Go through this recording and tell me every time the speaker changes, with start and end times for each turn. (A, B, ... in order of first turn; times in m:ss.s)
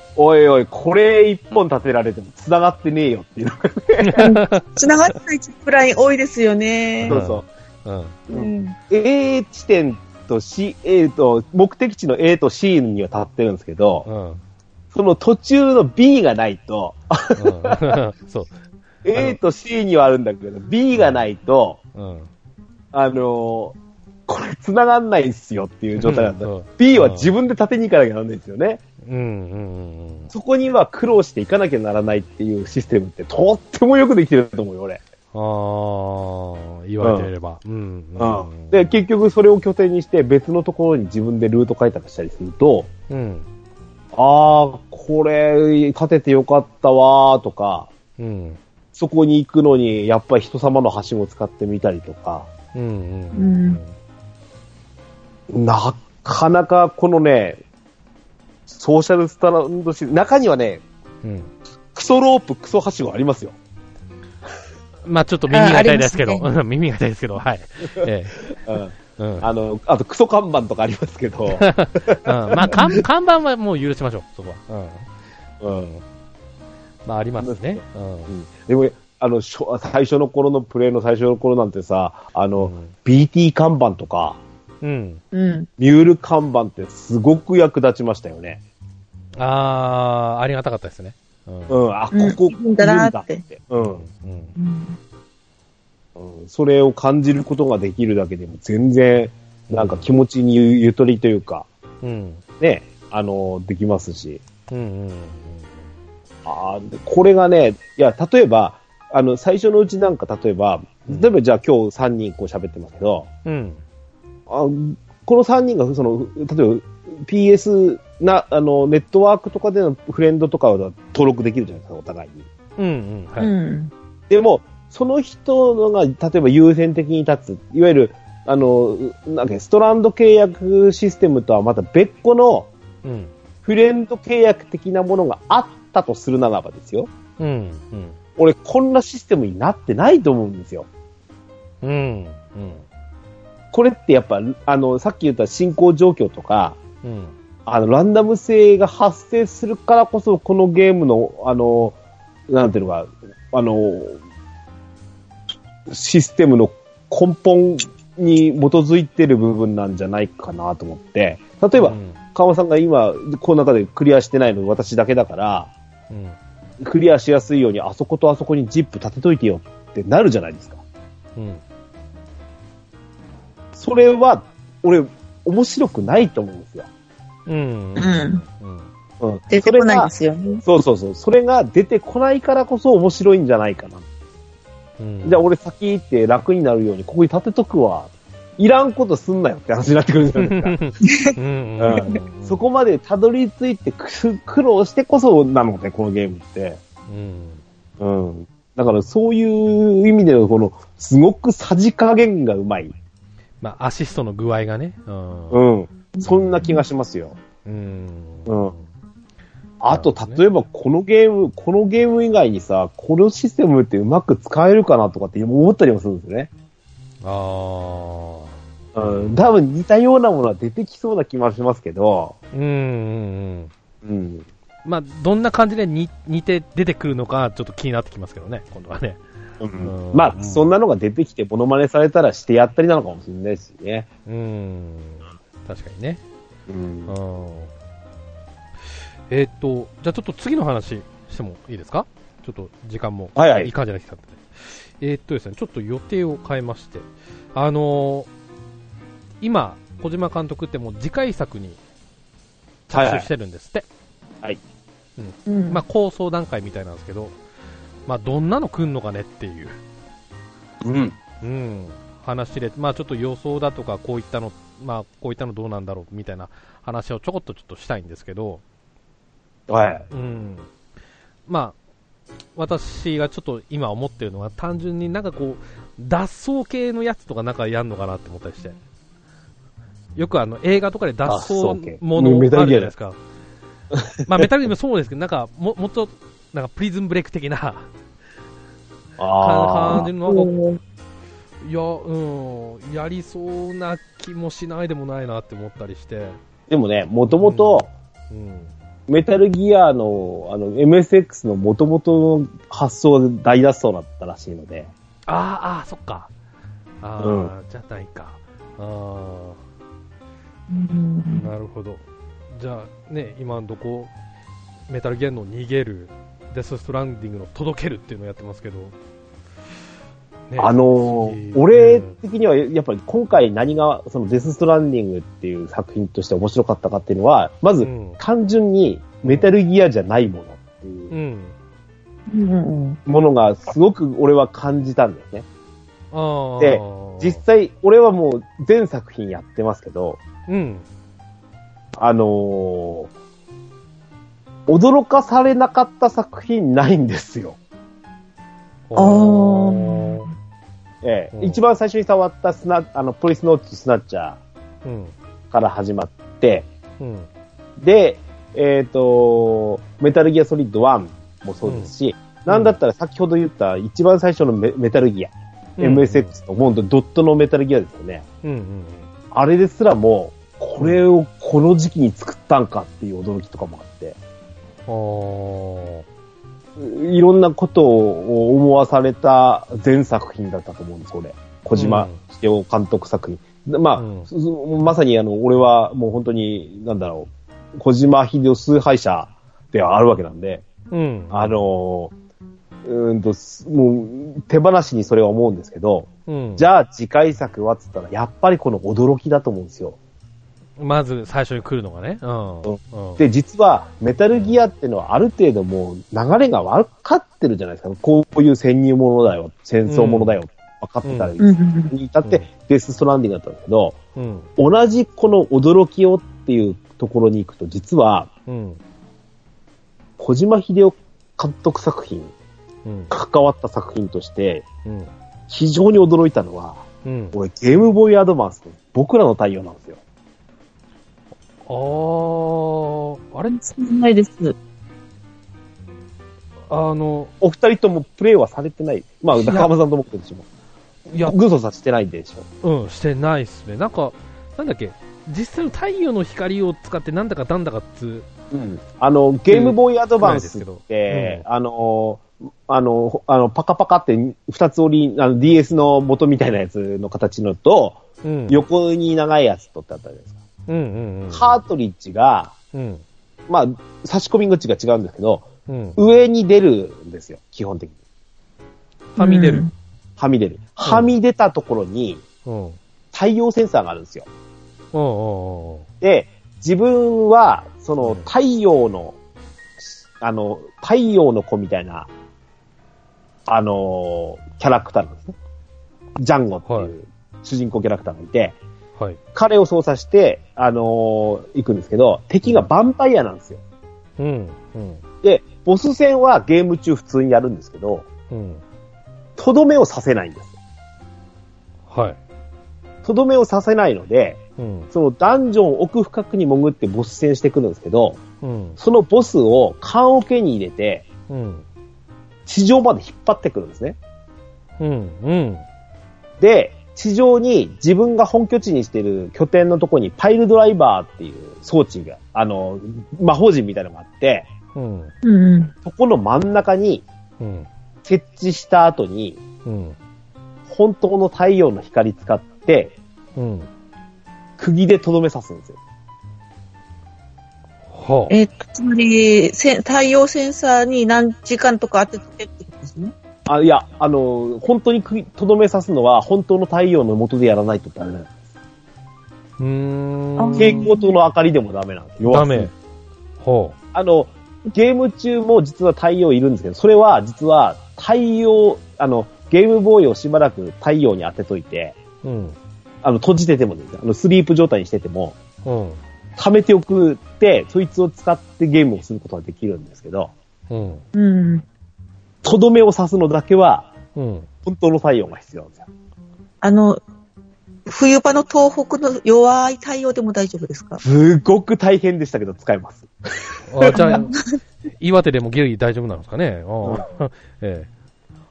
0:00.2-0:04.2 A
0:04.0-0:04.7 B
0:04.2-0:07.2 C
0:07.0-0:07.5 A
0:07.0-0:08.2 B
0:08.3-0:08.8 C
0:08.3-0:14.1 A
0:14.1-0:14.4 B
0:14.9-0:18.0 A
0:17.4-0:18.6 B
0:19.0-0:21.8 A
0:20.9-0:21.2 B
0:22.0-0:22.3 B
0:22.9-0:28.8 A
0:26.0-0:27.3 B
0:29.0-0:30.3 B
0:30.3-0:35.0 A
0:35.3-0:39.0 B
0:37.0-0:37.3 A
0:38.2-0:42.9 A
0:43.1-0:43.5 B
0:44.1-0:47.9 A
0:48.2-0:48.6 B
0:49.0-0:52.5 A
0:52.7-0:54.0 B
0:53.4-0:53.8 C
0:55.5-0:57.6 A
0:58.7-1:00.8 A
1:01.2-1:01.5 B
1:01.9-1:03.6 A
1:05.0-1:08.4 B
1:05.5-1:06.5 C
1:08.0-1:13.0 A
1:09.2-1:09.5 B
1:11.5-1:15.1 B
1:15.6-1:16.0 A
1:17.0-1:18.3 B
1:17.4-1:24.4 A
1:22.6-1:22.9 B
1:24.8-1:25.2 B
1:25.3-1:25.7 C
1:25.8-1:28.6 A
1:29.4-1:31.8 B
1:31.7-1:34.0 A
1:32.1-1:33.4 C
1:33.8-1:34.5 B
1:34.6-1:35.0 C
1:36.2-1:41.7 A
1:39.7-1:40.1 B
1:42.0-1:42.4 B
1:42.6-1:44.4 A
1:44.7-1:45.8 B
1:46.4-1:53.3 A
1:53.4-1:53.8 B
1:54.5-2:02.5 A
2:02.8-2:03.5 B
2:03.4-2:03.9 C
2:04.3-2:12.7 A
2:13.0-2:13.3 B
2:13.6-2:17.1 A
2:17.4-2:18.2 B
2:18.4-2:20.9 A
2:21.8-2:22.8 B
2:23.7-2:26.8 A
2:27.0-2:27.4 B
2:27.7-2:32.0 A
2:32.5-2:34.2 A
2:35.9-2:45.7 A
2:41.8-2:42.2 B
2:46.1-2:46.4 B
2:46.8-2:50.8 A
2:51.4-2:51.6 B
2:53.8-2:56.9 A
2:57.5-2:58.9 B
2:58.0-2:58.4 C
2:59.2-3:00.1 A
2:59.5-3:00.6 C
3:00.6-3:04.1 A
3:05.0-3:05.4 B
3:05.2-3:10.8 A
3:10.4-3:12.6 B
3:11.0-3:11.4 C
3:11.8-3:16.8 A
3:17.1-3:17.6 B
3:18.0-3:23.0 A
3:23.6-3:25.6 B
3:25.5-3:27.4 A
3:26.2-3:26.8 C
3:27.6-3:28.9 B
3:28.5-3:28.7 A
3:29.8-3:36.5 A
3:29.9-3:30.4 B
3:37.2-3:39.4 B
3:39.0-3:42.4 A
3:42.5-3:43.7 B
3:44.0-3:44.5 A
3:44.8-3:49.2 B
3:49.6-3:54.1 A
3:49.8-3:50.7 B
3:54.3-3:56.2 B
3:56.7-3:57.2 A
3:57.1-3:57.7 B
3:59.3-4:08.3 B
4:03.4-4:03.7 A
4:09.4-4:11.8 B
4:12.9-4:13.9 B
4:12.9-4:13.3 A
4:15.2-4:17.4 B
4:15.5-4:15.8 C
4:18.1-4:19.8 B
4:20.8-4:21.2 A
4:21.4-4:28.6 B
4:29.7-4:30.1 A
4:30.1-4:30.7 B
4:31.5-4:31.8 B
4:32.6-4:38.8 B
4:40.2-4:43.2 B
4:41.3-4:42.9 A
4:43.9-4:44.4 A
4:44.3-4:47.9 B
4:49.2-4:50.1 A
4:49.4-4:50.5 B
4:50.3-4:50.8 C
4:51.6-4:56.4 B
4:56.7-4:57.9 A
4:57.3-4:58.7 B
4:59.1-5:04.9 A
5:05.3-5:06.3 B
5:07.0-5:09.6 B
5:07.2-5:07.5 A
5:10.7-5:11.5 C
5:11.3-5:14.1 B
5:14.9-5:19.0 B
5:20.5-5:22.2 B
5:20.6-5:31.1 A
5:27.8-5:28.2 B
5:29.2-5:29.5 B
5:31.1-5:31.6 B
5:32.3-5:33.0 C
5:33.1-5:35.5 A
5:36.1-5:37.4 B
5:36.6-5:40.2 A
5:40.5-5:40.8 B
5:42.0-5:43.1 A
5:44.7-5:47.6 A
5:48.9-5:50.3 B
5:49.0-5:50.3 C
5:51.0-5:54.4 A
5:51.3-5:51.6 B
5:54.8-5:55.2 B
5:55.5-5:56.7 A
5:57.0-5:57.3 B
5:57.8-6:08.2 A
6:01.6-6:01.9 B
6:02.5-6:02.8 B
6:05.8-6:06.3 B
6:08.4-6:09.1 B
6:09.3-6:14.2 A
6:14.9-6:16.0 B
6:16.8-6:30.6 A
6:21.8-6:22.2 B
6:24.0-6:24.3 B
6:30.9-6:31.6 B
6:31.3-6:32.1 A
6:32.8-6:40.0 A
6:36.3-6:36.7 B
6:40.8-6:43.2 B
6:42.7-6:54.0 A
6:49.9-6:50.4 B
6:51.0-6:51.4 B
6:51.4-6:51.9 C
6:52.2-6:52.5 B
6:54.2-6:54.5 B
6:54.6-6:58.3 A
6:58.5-6:58.8 B
7:00.2-7:02.3 A
7:02.8-7:03.1 B
7:03.1-7:04.7 A
7:04.8-7:05.1 B
7:05.5-7:10.0 A
7:07.0-7:07.4 B
7:11.7-7:13.6 B
7:13.5-7:14.6 C
7:16.7-7:17.3 B
7:17.4-7:20.5 A
7:19.3-7:19.7 B
7:21.1-7:21.4 B
7:21.2-7:22.5 A
7:22.6-7:28.3 B
7:28.5-7:40.4 A
7:29.5-7:31.4 B
7:38.2-7:38.6 B
7:40.7-7:41.6 B
7:41.3-7:42.5 A
7:42.7-7:43.0 B
7:43.5-7:48.0 A
7:45.7-7:46.0 B
7:49.2-7:49.6 B
7:49.2-7:49.7 C
7:50.2-7:52.2 A
7:50.8-7:51.1 B
7:52.4-7:52.8 B
7:53.1-7:54.3 A
7:54.9-7:55.9 B
7:56.0-7:59.2 A
7:58.0-7:58.3 B
8:00.2-8:02.1 A
8:03.5-8:05.4 A
8:06.2-8:08.6 A
8:06.6-8:06.9 B
8:09.3-8:13.6 A
8:14.2-8:15.0 B
8:15.2-8:18.1 A
8:18.3-8:18.6 B
8:19.4-8:20.5 A
8:21.9-8:22.2 B
8:23.0-8:24.4 A
8:24.6-8:24.9 B
8:24.9-8:28.2 A
8:28.4-8:28.8 B
8:28.8-8:31.1 A
8:31.3-8:31.6 B
8:32.5-8:34.0 A
8:34.8-8:35.6 B
8:36.4-8:44.5 A
8:44.8-8:45.1 B
8:45.2-8:45.7 C
8:45.8-8:47.0 A
8:47.4-8:47.7 B
8:48.0-8:49.4 A
8:49.7-8:50.0 B
8:50.7-8:53.0 A
8:53.4-8:53.7 B
8:54.6-8:55.8 A
8:57.9-8:58.4 B
8:58.3-9:03.1 C
9:03.5-9:08.3 A
9:09.6-9:10.9 B
9:10.4-9:11.2 C
9:10.6-9:12.7 A
9:12.3-9:12.7 B
9:13.4-9:13.8 B
9:13.9-9:22.0 A
9:22.2-9:22.6 B
9:23.0-9:25.4 A
9:25.6-9:26.0 B
9:26.4-9:30.3 A
9:30.7-9:31.0 B
9:31.2-9:31.6 C
9:32.4-9:33.9 A
9:34.2-9:34.5 B
9:34.6-9:35.9 A
9:36.6-9:37.0 C
9:37.9-9:41.0 C
9:41.0-9:44.2 A
9:43.7-9:44.4 B
9:43.9-9:44.4 C
9:45.0-9:47.9 B